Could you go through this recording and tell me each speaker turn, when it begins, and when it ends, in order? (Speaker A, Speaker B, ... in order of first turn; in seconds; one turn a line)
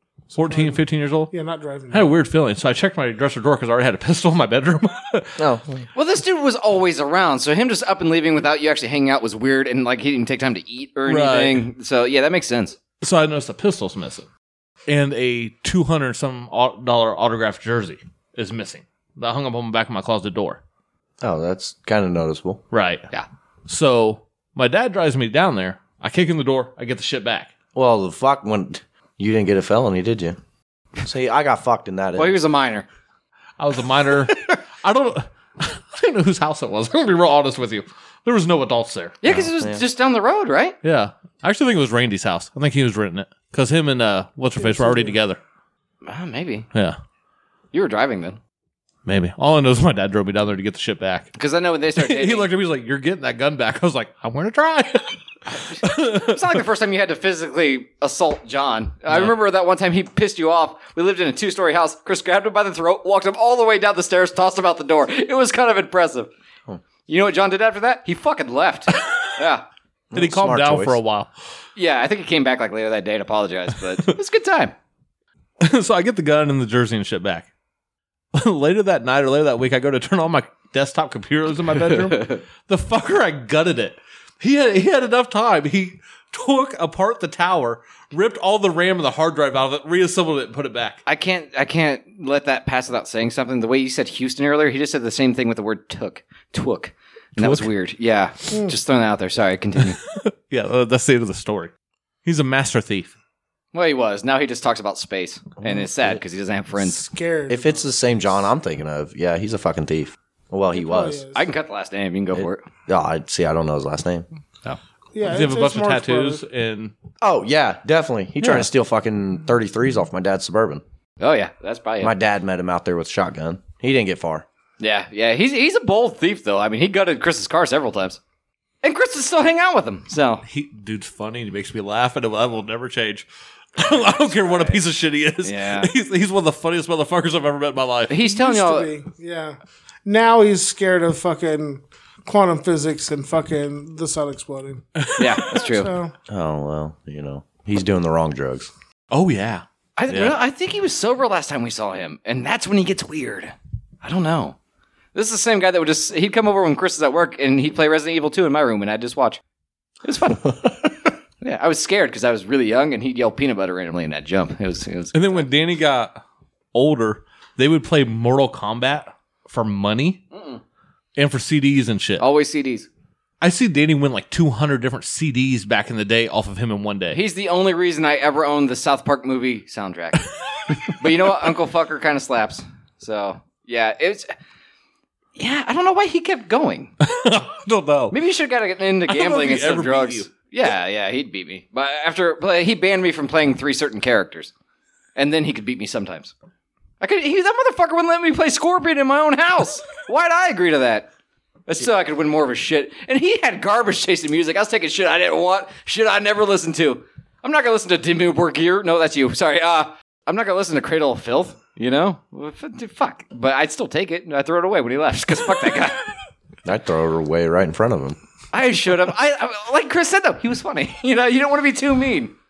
Speaker A: 0.3-2.1
Speaker B: 0.3-1.3
Speaker B: 1.9-5.4
Speaker C: 5.4-5.9
Speaker D: 5.9-12.8
Speaker B: 11.1-11.6
Speaker B: 13.0-14.3
Speaker B: 14.9-20.6
Speaker C: 21.2-22.6
Speaker B: 22.7-23.1
Speaker B: 23.7-27.5
Speaker C: 27.8-30.4
Speaker C: 31.0-32.4
Speaker D: 32.2-32.9
Speaker B: 33.6-39.2
Speaker D: 39.2-40.8
Speaker C: 39.2-39.8
Speaker B: 40.8-45.4
Speaker A: 44.6-45.2
Speaker D: 46.0-46.7
Speaker D: 47.7-48.4
Speaker B: 49.1-51.3
Speaker D: 51.4-52.5
Speaker B: 52.0-56.6
Speaker D: 55.5-66.3
Speaker D: 67.1-69.7
Speaker C: 70.1-71.0
Speaker B: 70.1-71.3
Speaker D: 71.8-74.8
Speaker B: 75.6-77.5
Speaker B: 78.3-91.0
Speaker D: 81.9-82.4
Speaker D: 91.1-100.0
Speaker B: 97.4-97.7
Speaker B: 100.0-101.7
Speaker B: 102.2-103.1
Speaker D: 103.7-107.0
Speaker C: 105.6-106.2
Speaker A: 106.8-108.0
Speaker C: 107.5-111.2
Speaker A: 110.7-111.5
Speaker D: 111.3-112.7
Speaker C: 112.3-114.3
Speaker B: 114.7-116.9
Speaker A: 115.1-116.4
Speaker C: 117.2-120.8
Speaker D: 121.2-122.2
Speaker C: 122.0-124.5
Speaker D: 124.8-128.2
Speaker D: 128.8-130.4
Speaker B: 130.5-138.2
Speaker D: 133.8-134.8
Speaker D: 135.4-135.9
Speaker D: 138.1-138.9
Speaker A: 138.2-144.8
Speaker B: 145.0-145.4
Speaker D: 145.2-145.9
Speaker A: 145.5-146.1
Speaker C: 146.3-148.7
Speaker B: 149.1-150.4
Speaker D: 150.0-154.6
Speaker D: 155.1-159.4
Speaker D: 160.0-160.8
Speaker D: 161.4-165.5
Speaker B: 165.1-166.2
Speaker B: 166.7-170.2
Speaker D: 170.3-170.6
Speaker B: 171.2-172.2
Speaker D: 172.2-172.9
Speaker B: 173.4-177.2
Speaker D: 177.1-180.3
Speaker D: 180.8-184.3
Speaker D: 185.4-186.9
Speaker B: 187.0-188.2
Speaker D: 188.1-194.5
Speaker B: 189.1-190.3
Speaker D: 195.2-196.3
Speaker D: 197.0-201.1
Speaker D: 201.7-216.0
Speaker C: 216.7-218.2
Speaker D: 218.5-222.3